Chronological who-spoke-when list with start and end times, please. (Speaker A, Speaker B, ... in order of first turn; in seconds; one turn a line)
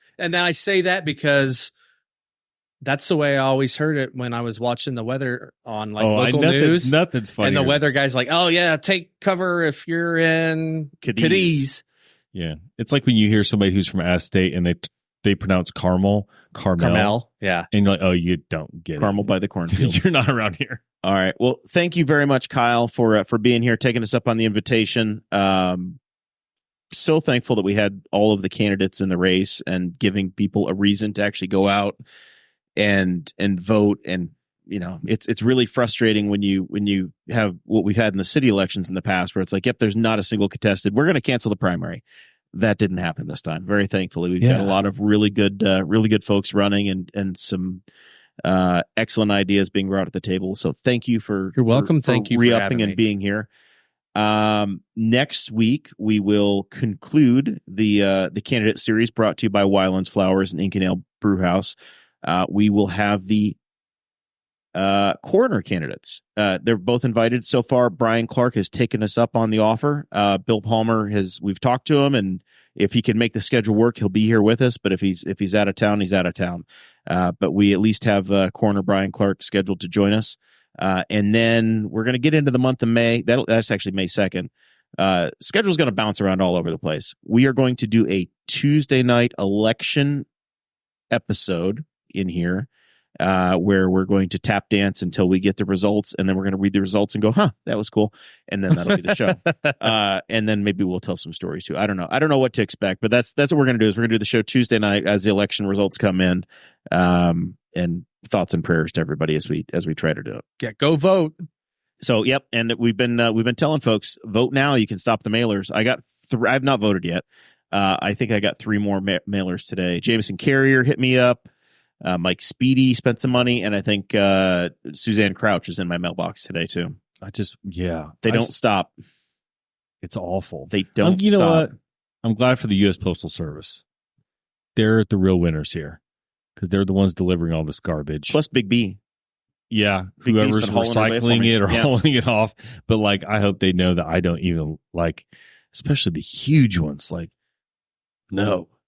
Speaker A: 0.2-1.7
Speaker A: 2.8-11.8
Speaker B: 6.0-7.8
Speaker C: 11.0-11.7
Speaker B: 12.3-17.1
Speaker A: 16.8-17.7
Speaker B: 17.7-20.8
Speaker C: 19.0-20.0
Speaker C: 21.0-26.0
Speaker C: 26.9-32.0
Speaker C: 32.8-42.0
Speaker C: 42.5-47.8
Speaker A: 44.4-44.7
Speaker C: 48.4-53.5
Speaker A: 51.5-53.0
Speaker C: 54.1-63.6
Speaker C: 64.7-90.3
Speaker C: 91.1-92.7
Speaker C: 93.2-110.4
Speaker A: 110.6-111.4
Speaker C: 112.0-121.5
Speaker C: 122.0-127.0
Speaker B: 127.2-128.5
Speaker C: 128.2-128.9
Speaker B: 130.0-133.8
Speaker C: 130.7-131.7
Speaker B: 134.8-136.0
Speaker B: 136.6-138.3
Speaker C: 138.3-139.0
Speaker B: 139.7-147.3
Speaker C: 140.2-141.9
Speaker B: 148.3-148.7